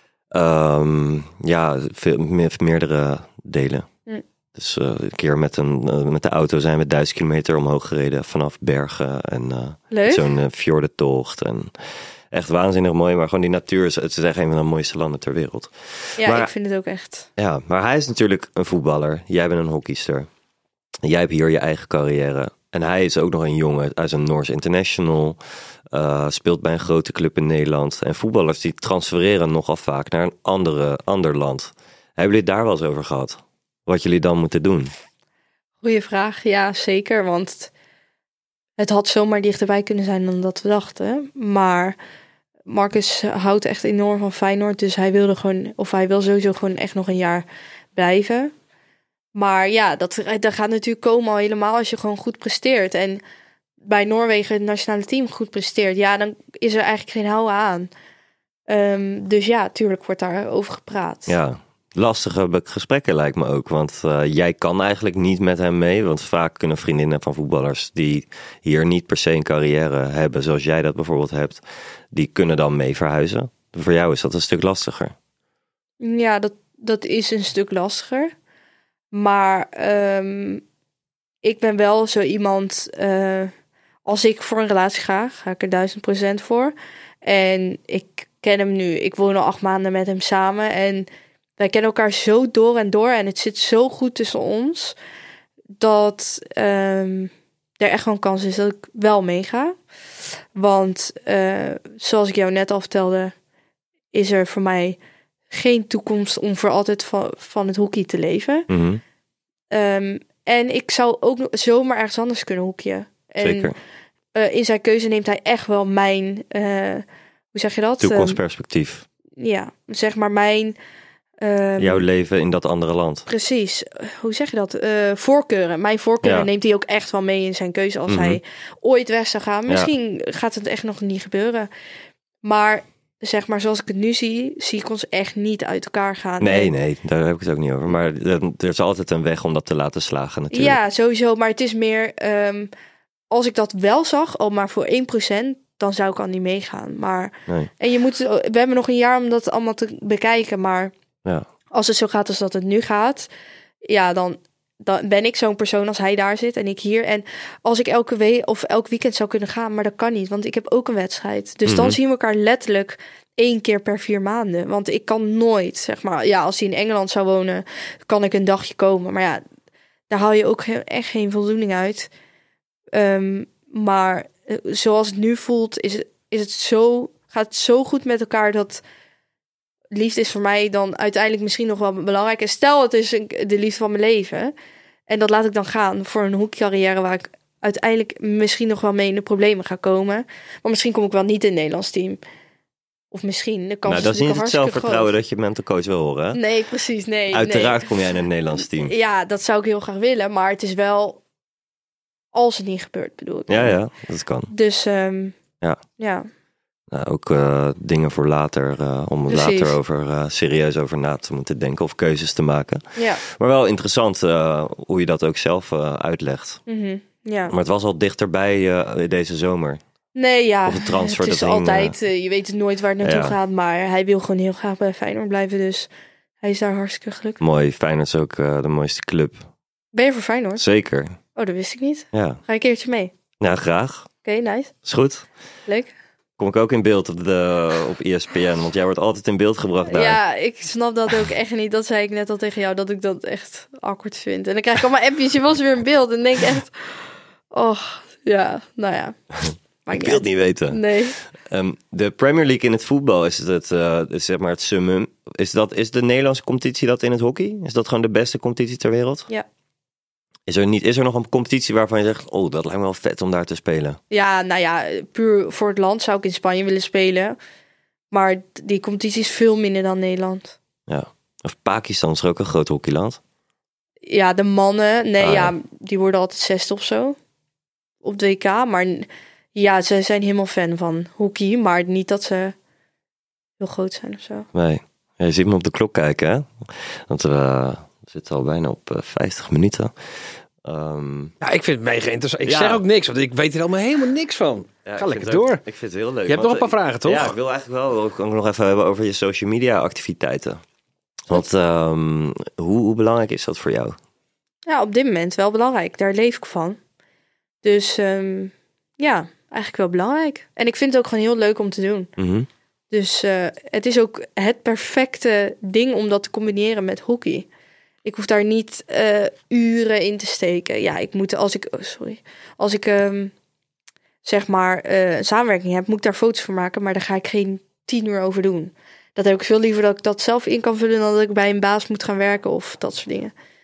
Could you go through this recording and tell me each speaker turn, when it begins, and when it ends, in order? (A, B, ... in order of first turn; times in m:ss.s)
0:00.3-0:03.9 A
0:04.6-0:11.7 A
0:09.9-0:10.3 B
0:12.3-0:16.5 A
0:16.2-0:17.3 B
0:17.4-0:20.3 A
0:21.0-0:25.4 A
0:25.9-0:34.9 A
0:35.8-0:37.7 B
0:38.8-0:42.0 B
0:42.7-0:48.5 B
0:49.4-0:53.2 B
0:53.8-0:57.9 B
0:58.7-1:01.4 B
1:01.3-1:15.1 A
1:16.0-1:18.3 B
1:19.1-1:20.6 B
1:21.4-1:23.5 B
1:24.1-1:31.1 B
1:31.6-1:35.0 B
1:35.8-1:39.8 B
1:40.6-1:43.3 B
1:44.1-1:45.0 B
1:45.5-1:48.7 B
1:48.7-1:49.0 A
1:49.7-1:53.7 B
1:53.4-1:53.8 A
1:54.3-1:58.4 B
1:58.0-1:59.0 A
1:59.4-2:00.8 B
2:01.4-2:02.0 B
2:01.8-2:03.3 A
2:03.3-2:11.7 B
2:06.2-2:06.5 A
2:08.1-2:08.4 A
2:12.4-2:16.7 B
2:16.4-2:20.8 A
2:20.5-2:22.7 B
2:23.3-2:30.9 B
2:31.7-2:33.3 B
2:33.9-2:49.4 B
2:41.7-2:42.0 A
2:50.1-2:52.1 B
2:52.9-2:58.8 B
2:59.9-3:04.5 B
3:05.1-3:12.2 B
3:13.1-3:15.1 B
3:13.9-3:16.4 A
3:16.3-3:17.9 B
3:17.3-3:18.9 A
3:18.7-3:21.2 B
3:22.3-3:23.8 B
3:23.5-3:24.5 A
3:24.5-3:25.4 B
3:26.0-3:26.3 B
3:26.9-3:36.6 A
3:29.3-3:29.8 B
3:33.0-3:33.2 B
3:36.7-3:37.5 B
3:37.5-3:39.8 A
3:40.2-3:45.9 B
3:40.7-3:42.0 A
3:43.0-3:43.4 A
3:46.4-3:47.4 B
3:47.4-3:49.4 A
3:49.9-3:50.6 B
3:50.6-3:51.2 A
3:51.4-3:53.1 B
3:52.1-3:52.4 A
3:53.4-3:54.1 A
3:54.2-3:54.7 B
3:54.8-3:55.3 A
3:55.7-3:55.9 B
3:56.4-4:00.2 A
3:59.9-4:06.7 B
4:07.5-4:09.2 B
4:09.9-4:11.2 B
4:09.9-4:10.8 A
4:11.4-4:19.3 A
4:20.5-4:24.0 A
4:24.1-4:27.4 B
4:28.1-4:30.6 B
4:30.9-4:33.2 A
4:34.1-4:37.2 B
4:35.2-4:35.5 A
4:38.0-4:42.5 B
4:43.6-4:44.5 B
4:44.5-4:49.9 A
4:50.6-4:51.4 A
4:51.4-4:55.6 C
4:52.4-4:52.8 A
4:54.8-5:00.6 A
4:56.3-4:57.4 C
5:01.3-5:04.0 A
5:04.7-5:06.8 B
5:07.6-5:12.1 B
5:12.2-5:12.5 A
5:12.9-5:17.5 B
5:18.0-5:23.3 B
5:24.2-5:33.3 B